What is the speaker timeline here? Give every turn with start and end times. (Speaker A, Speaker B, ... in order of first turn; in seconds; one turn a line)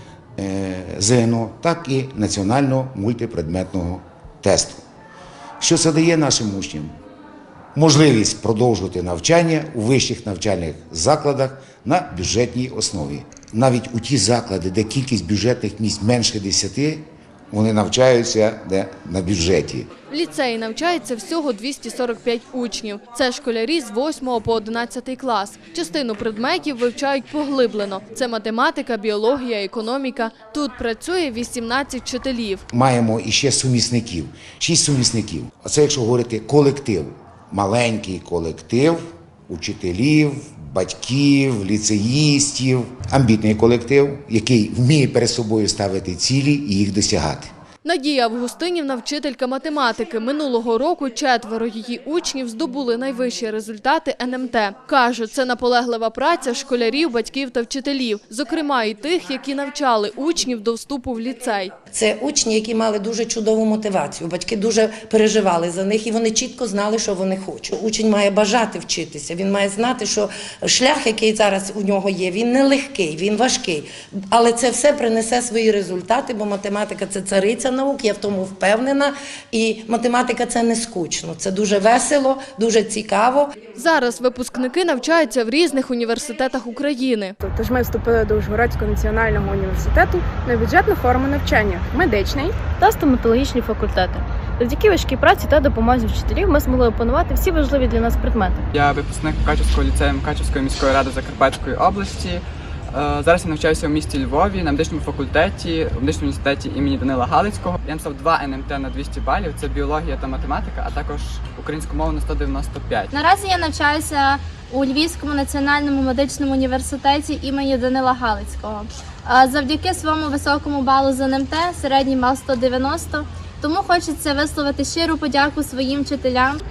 Speaker A: 0.4-4.8
Speaker A: 5.6-6.9
Speaker A: 7.8-19.9
Speaker B: 20.1-32.6
Speaker A: 32.7-47.5
Speaker B: 47.8-61.7
Speaker C: 61.9-83.5
Speaker B: 83.8-87.3
Speaker D: 87.4-92.6
Speaker E: 92.8-98.6
Speaker F: 98.7-113.1
Speaker G: 113.1-126.6